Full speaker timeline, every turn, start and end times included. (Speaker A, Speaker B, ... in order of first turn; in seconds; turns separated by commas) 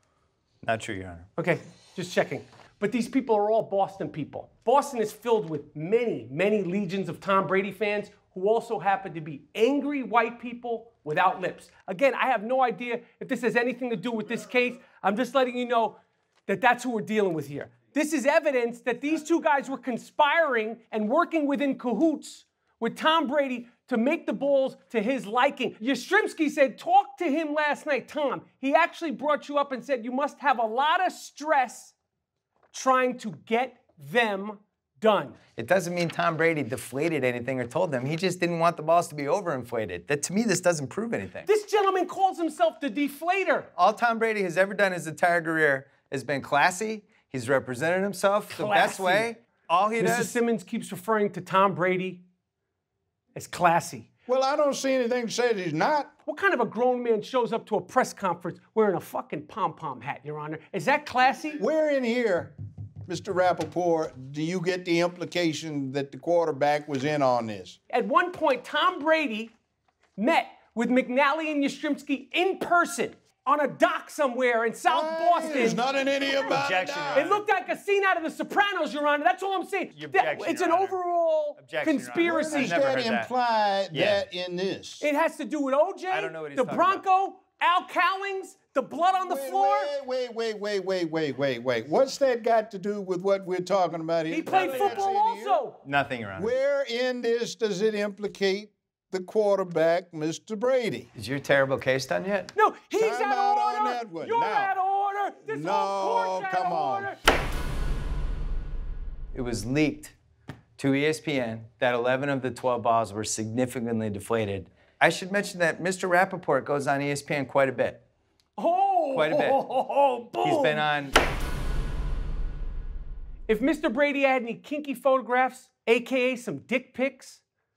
Speaker A: 0.6-1.3, Speaker B: 1.4-31.9, Speaker B: 32.7-35.4, Speaker A: 35.6-41.5, Speaker B: 41.5-43.7, Speaker A: 43.7-50.4, Speaker B: 48.5-49.3, Speaker B: 50.0-52.2, Speaker B: 53.3-54.1, Speaker C: 54.3-56.1, Speaker B: 56.2-61.6, Speaker C: 61.6-62.5, Speaker C: 63.1-67.8, Speaker B: 67.9-69.5, Speaker B: 70.2-76.5, Speaker C: 74.9-77.3, Speaker A: 76.5-77.4, Speaker B: 77.1-82.8, Speaker A: 79.9-81.0, Speaker A: 81.6-83.3, Speaker C: 82.2-85.0, Speaker A: 83.9-84.2, Speaker B: 85.0-89.9, Speaker A: 86.1-87.0, Speaker C: 89.2-95.6, Speaker B: 94.3-95.8, Speaker A: 94.5-95.1, Speaker A: 95.8-96.5, Speaker C: 96.4-101.1, Speaker A: 101.1-102.5, Speaker B: 102.5-107.2, Speaker C: 103.0-104.7, Speaker C: 105.5-107.1, Speaker A: 109.3-110.1, Speaker A: 110.8-118.0, Speaker B: 118.6-120.9, Speaker A: 119.1-119.6, Speaker A: 120.4-121.2, Speaker B: 123.5-127.4